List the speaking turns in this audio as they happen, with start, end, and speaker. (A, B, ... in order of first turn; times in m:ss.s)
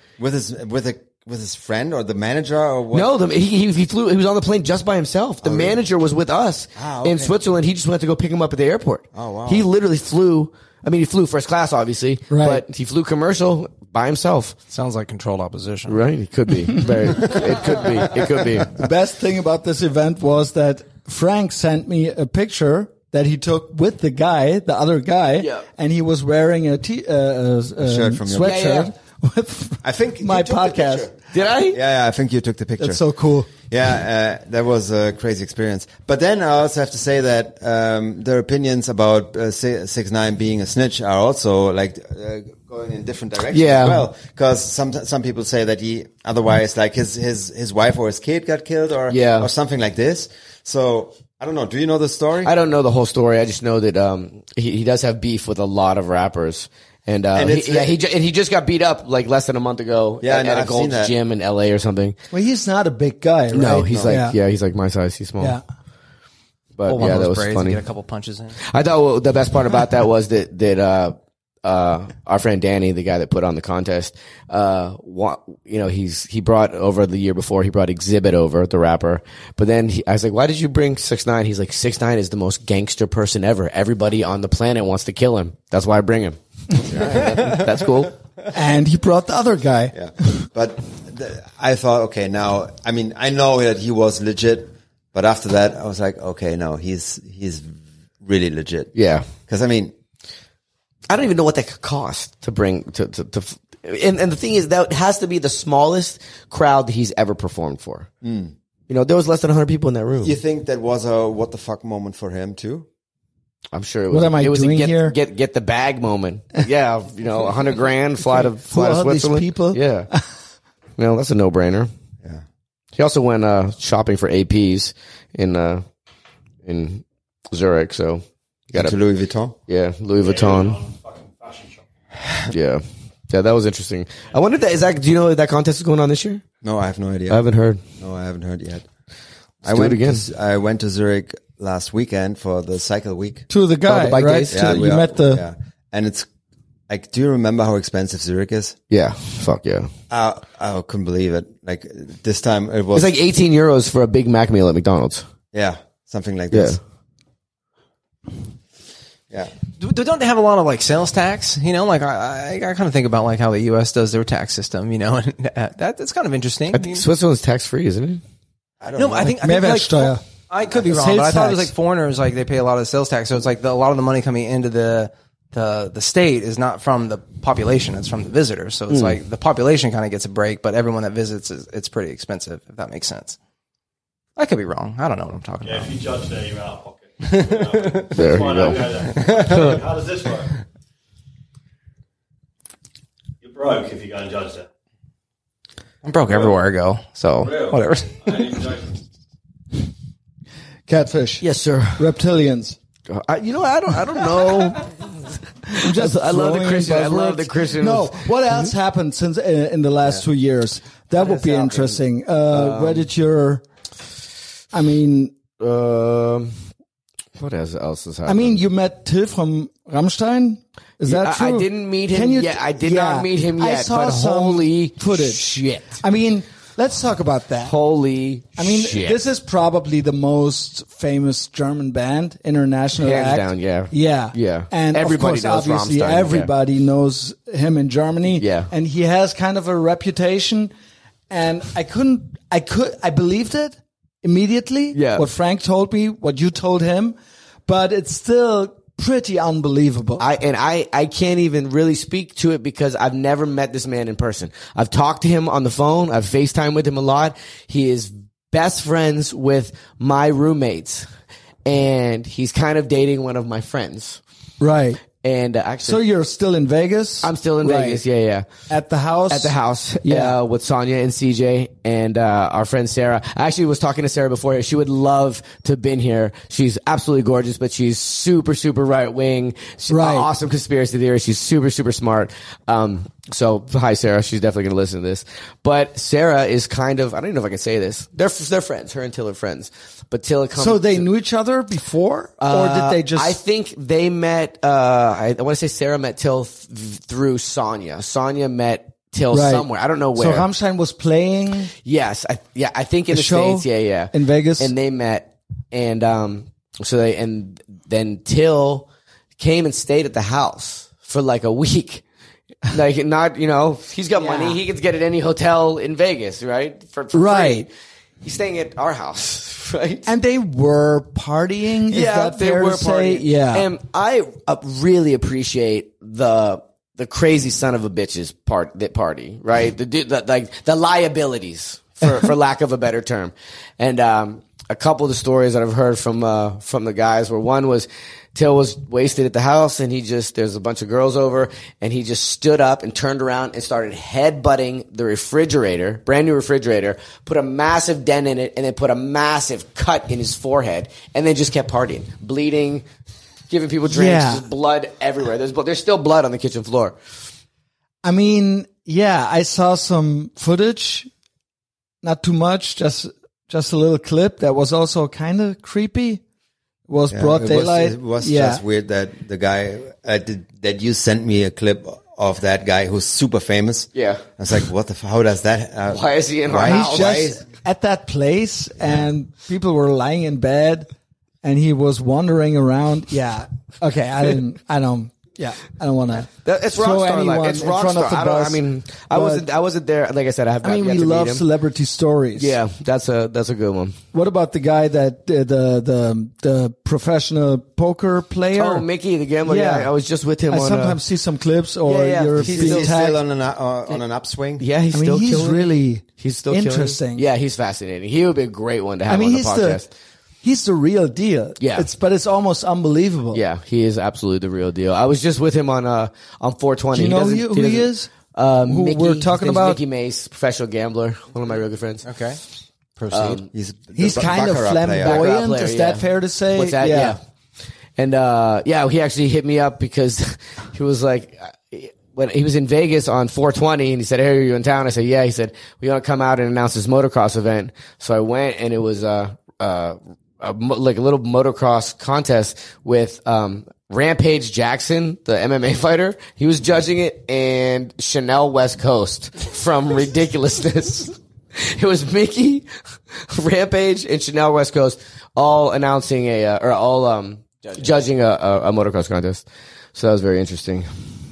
0:00.2-0:03.1 A
0:02.9-0:14.6 B
0:05.4-0:05.8 A
0:06.8-0:07.4 A
0:09.1-0:09.7 A
0:12.3-0:12.6 C
0:14.7-0:16.0 D
0:15.9-0:18.7 B
0:18.7-0:31.1 C
0:25.4-0:25.6 B
0:27.8-0:28.6 A
0:28.4-0:28.9 B
0:29.8-0:52.5 A
0:31.3-0:31.8 B
0:32.8-0:33.5 C
0:43.5-0:44.1 B
0:49.1-0:49.5 B
0:52.4-1:02.2 B
0:57.3-0:58.0 A
1:00.2-1:01.1 A
1:02.3-1:04.3 C
1:03.5-1:05.6 B
1:03.8-1:04.2 A
1:06.8-1:07.8 B
1:06.8-1:08.6 D
1:08.6-1:28.1 B
1:26.9-1:27.7 A
1:28.5-1:30.3 C
1:29.9-1:38.9 A
1:38.9-1:39.3 B
1:39.5-1:39.9 A
1:41.1-1:48.1 B
1:48.2-1:48.5 A
1:48.9-1:50.4 B
1:50.2-1:52.8 A
1:53.7-2:00.1 B
1:54.1-1:55.1 C
1:58.3-2:00.2 C
2:01.0-2:01.9 B
2:03.0-2:05.8 B
2:06.6-2:09.0 B
2:08.7-2:09.5 A
2:09.7-2:10.8 B
2:10.2-2:11.8 E
2:12.5-2:16.4 B
2:16.6-2:17.4 A
2:17.3-2:17.8 B
2:18.0-2:18.9 A
2:19.6-2:23.4 A
2:19.6-2:20.2 B
2:23.5-2:25.4 C
2:23.8-2:24.7 B
2:24.5-2:26.3 A
2:26.9-2:28.8 A
2:28.9-2:29.9 B
2:30.1-2:33.1 A
2:32.9-2:35.2 B
2:35.5-2:36.8 A
2:36.5-2:36.8 B
2:39.8-2:47.1 D
2:46.7-2:48.2 B
2:48.8-2:49.4 A
2:49.0-3:03.4 D
2:49.4-2:50.2 C
2:50.9-2:51.7 C
2:58.9-2:59.2 B
3:04.4-3:05.9 D
3:05.6-3:10.6 E
3:08.1-3:09.8 B
3:13.4-3:14.7 E
3:16.0-3:18.7 D
3:17.4-3:19.0 E
3:20.9-3:22.8 C
3:21.4-3:22.0 B
3:23.1-3:25.0 B
3:25.7-3:33.6 C
3:25.7-3:28.2 B
3:31.2-3:32.0 B
3:32.5-3:33.1 B
3:34.7-3:35.4 C
3:35.6-3:36.6 B
3:37.4-3:38.6 B
3:38.2-3:45.4 C
3:41.1-3:46.0 B
3:46.0-3:47.7 C
3:47.6-3:49.2 B
3:48.6-4:00.7 C
3:53.0-3:56.5 B
3:58.4-3:58.7 B
4:01.3-4:07.2 C
4:04.9-4:05.3 B
4:07.7-4:10.2 C
4:10.2-4:21.1 B
4:21.6-4:24.2 B
4:24.6-4:25.0 C
4:25.1-4:26.0 B
4:25.8-4:28.0 C
4:27.2-4:28.5 B
4:28.7-4:30.4 C
4:29.3-4:51.0 B
4:39.9-4:40.3 C
4:50.6-4:53.4 C
4:52.4-5:00.5 B
4:59.3-5:01.7 C
5:01.8-5:08.8 B
5:03.1-5:04.7 C
5:09.4-5:12.0 B
5:12.6-5:17.7 B
5:14.1-5:14.6 C
5:17.1-5:17.7 C
5:18.2-5:20.1 B
5:20.0-5:23.7 C
5:21.9-5:52.8 B
5:53.5-5:57.0 B
5:53.9-5:54.4 C
5:58.0-6:01.1 C
6:02.0-6:06.2 C
6:06.9-6:08.6 C
6:07.1-6:17.4 A
6:13.9-6:14.2 B
6:15.9-6:17.2 B
6:16.6-6:20.9 C
6:21.4-6:29.4 C
6:26.2-6:31.4 B
6:30.6-6:32.6 C
6:32.4-6:34.0 B
6:34.1-6:38.8 C
6:38.6-6:41.0 B
6:39.4-6:39.9 C
6:40.5-6:43.2 C
6:41.8-6:42.9 B
6:42.4-6:44.6 A
6:44.6-6:49.9 B
6:44.9-6:47.2 C
6:49.1-6:49.8 C
6:50.4-6:53.4 C
6:51.6-6:51.9 B
6:53.3-7:02.0 B
6:56.9-6:58.1 C
6:58.6-6:59.8 C
7:02.0-7:02.4 D
7:03.0-7:03.4 D
7:03.1-7:03.4 B
7:03.5-7:05.4 A
7:04.0-7:07.2 C
7:05.0-7:07.2 B
7:08.0-7:40.9 B